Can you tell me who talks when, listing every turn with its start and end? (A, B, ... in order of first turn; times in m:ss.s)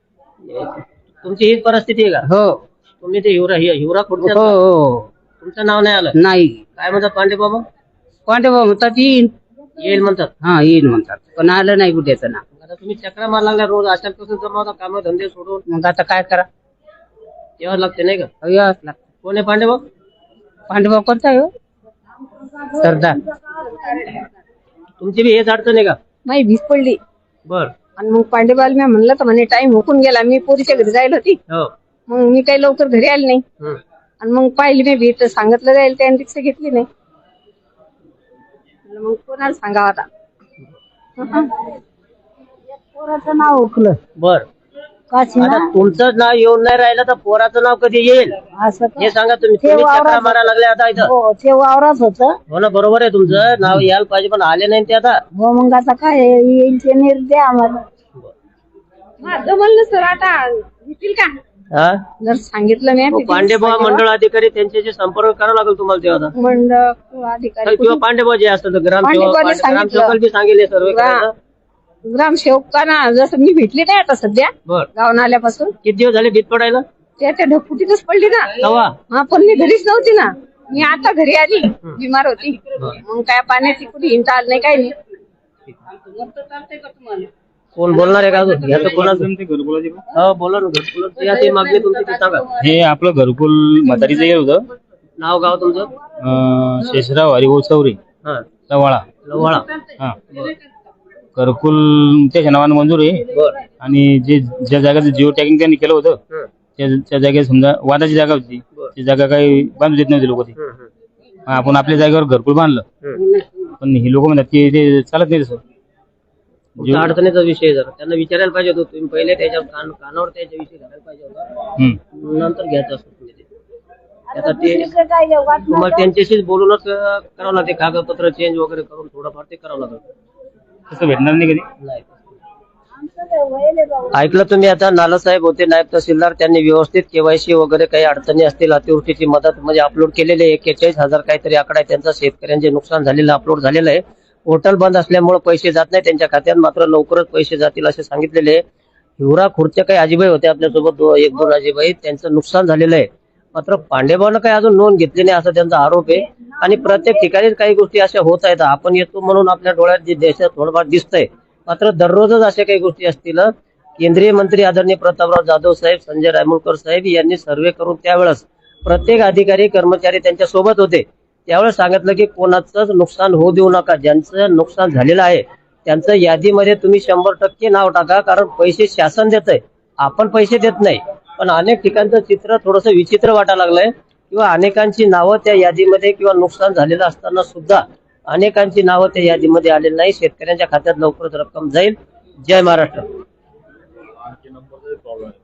0:00.4-0:02.3 A
0:02.3-0:02.6 B
0:03.0-0:04.6 A
0:04.3-0:05.1 B
0:05.4-0:06.2 A
0:06.2-0:06.6 B
0:06.8-0:07.6 A
0:08.3-0:09.3 B
0:09.8-0:10.3 A
0:10.4-0:12.4 B
0:12.6-0:15.6 A
0:15.7-0:16.5 B
0:17.6-0:18.3 A
0:18.4-0:19.0 B
0:19.2-0:19.8 A
0:20.7-0:21.5 B
0:22.7-0:23.2 A
0:25.0-0:26.0 A
0:26.3-0:27.0 C
0:27.5-0:27.7 A
0:28.0-0:31.4 C
0:32.1-0:33.4 C
0:34.2-0:36.9 C
0:38.9-0:40.1 C
0:41.2-0:41.6 C
0:42.8-0:44.0 D
0:44.2-0:44.5 A
0:45.1-0:45.7 D
0:45.4-0:48.4 A
0:48.5-0:50.4 D
0:49.0-0:51.1 A
0:51.0-0:52.4 D
0:52.5-0:55.2 A
0:55.3-0:57.8 D
0:59.2-1:01.4 C
1:01.7-1:02.0 A
1:02.2-1:04.0 C
1:03.1-1:06.3 A
1:06.4-1:08.0 C
1:07.6-1:11.3 A
1:09.0-1:10.2 C
1:10.9-1:11.3 C
1:12.1-1:15.8 C
1:15.8-1:16.8 A
1:17.2-1:18.6 C
1:18.6-1:19.0 A
1:19.1-1:25.0 C
1:26.6-1:27.2 C
1:27.8-1:29.3 A
1:28.7-1:30.0 E
1:30.1-1:32.5 A
1:32.6-1:34.6 E
1:35.2-1:35.9 A
1:36.2-1:38.0 E
1:38.7-1:39.1 E
1:39.2-1:39.7 A
1:41.4-1:46.2 E
1:46.8-1:50.5 E
1:50.6-1:50.9 A
1:51.5-1:52.9 E
1:53.8-1:55.6 E
1:56.8-1:57.1 E
1:56.8-2:01.5 A
2:02.1-2:03.5 A
2:04.3-2:06.1 D
2:04.4-2:04.9 A
2:05.7-2:10.0 A
2:10.9-2:11.7 E
2:11.8-2:12.2 A
2:13.0-2:14.4 D
2:14.1-2:28.6 A
2:29.2-3:13.1 A